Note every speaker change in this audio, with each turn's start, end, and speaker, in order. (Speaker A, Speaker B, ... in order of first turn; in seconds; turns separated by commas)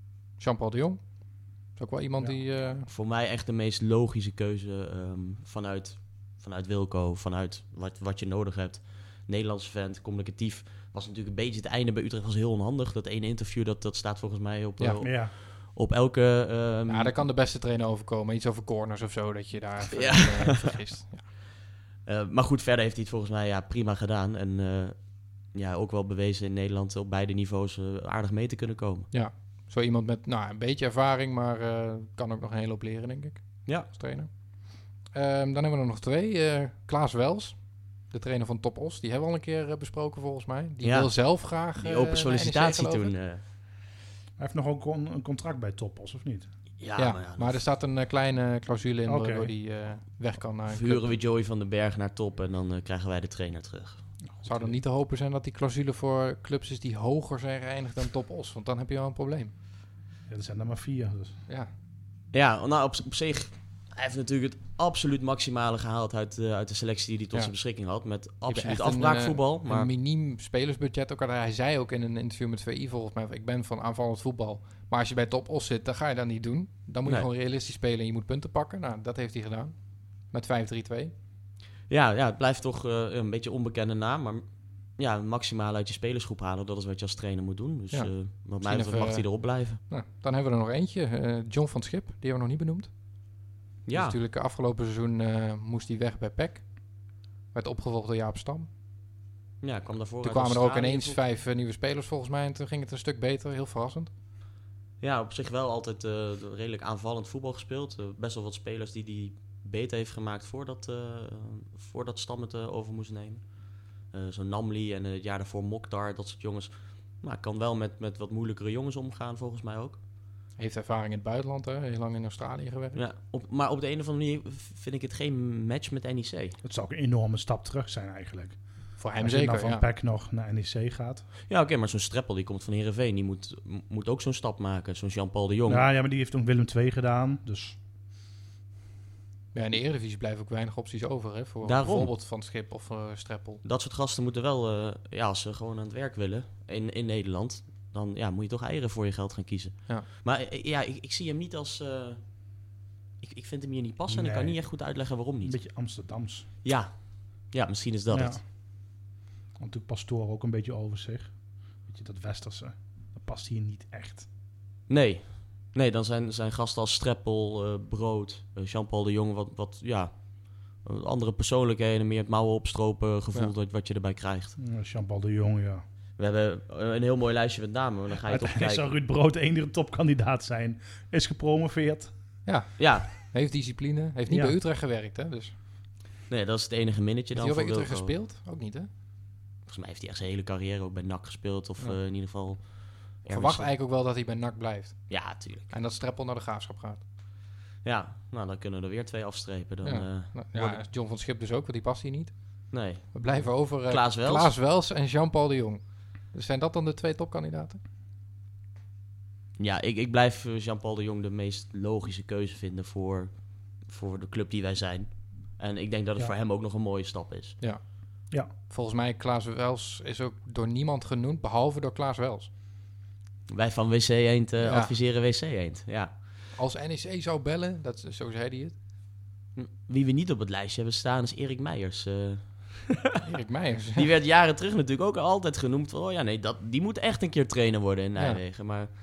Speaker A: 0.3-2.9, Speaker B: 2.8-17.2, Speaker A: 14.8-15.1, Speaker C: 15.0-15.3, Speaker A: 16.9-21.2, Speaker B: 19.9-20.8, Speaker B: 22.1-29.1, Speaker A: 29.1-43.1, Speaker B: 40.8-43.4, Speaker C: 44.4-46.5, Speaker B: 46.8-47.6, Speaker A: 47.0-51.1, Speaker C: 49.0-49.5, Speaker B: 50.7-54.0, Speaker C: 54.3-54.8, Speaker A: 54.4-59.5, Speaker C: 60.3-61.4, Speaker B: 62.3-69.9, Speaker A: 68.5-81.1, Speaker B: 81.9-89.8, Speaker A: 87.9-92.9, Speaker B: 93.8-94.2, Speaker A: 93.9-97.0, Speaker A: 97.5-98.7, Speaker B: 99.6-101.2, Speaker A: 100.2-104.1, Speaker B: 105.0-120.0, Speaker A: 120.6-123.0, Speaker B: 122.9-126.6, Speaker C: 126.6-128.6, Speaker A: 129.0-129.9, Speaker C: 129.2-131.2, Speaker B: 131.5-135.8, Speaker C: 135.7-137.8, Speaker A: 139.5-143.6, Speaker B: 141.6-142.1, Speaker B: 143.6-152.3, Speaker B: 153.2-155.6, Speaker C: 154.1-154.6, Speaker C: 155.4-156.5, Speaker B: 156.6-158.4, Speaker C: 158.1-158.4, Speaker C: 159.6-164.3, Speaker B: 164.9-174.6, Speaker C: 174.6-175.8, Speaker B: 176.2-178.8, Speaker C: 178.2-182.1, Speaker A: 182.4-185.5, Speaker B: 182.8-183.1, Speaker C: 184.3-184.6, Speaker B: 186.3-188.1, Speaker A: 187.3-188.9, Speaker B: 189.7-193.7, Speaker A: 193.3-197.0, Speaker B: 195.1-195.7, Speaker B: 197.8-200.8, Speaker A: 199.8-207.8, Speaker B: 202.7-204.5, Speaker B: 209.6-217.6, Speaker A: 217.6-217.8, Speaker A: 218.7-222.5, Speaker B: 223.5-226.1, Speaker A: 224.6-224.9, Speaker A: 226.5-228.7, Speaker B: 229.5-233.2, Speaker A: 233.2-234.1, Speaker B: 233.9-238.9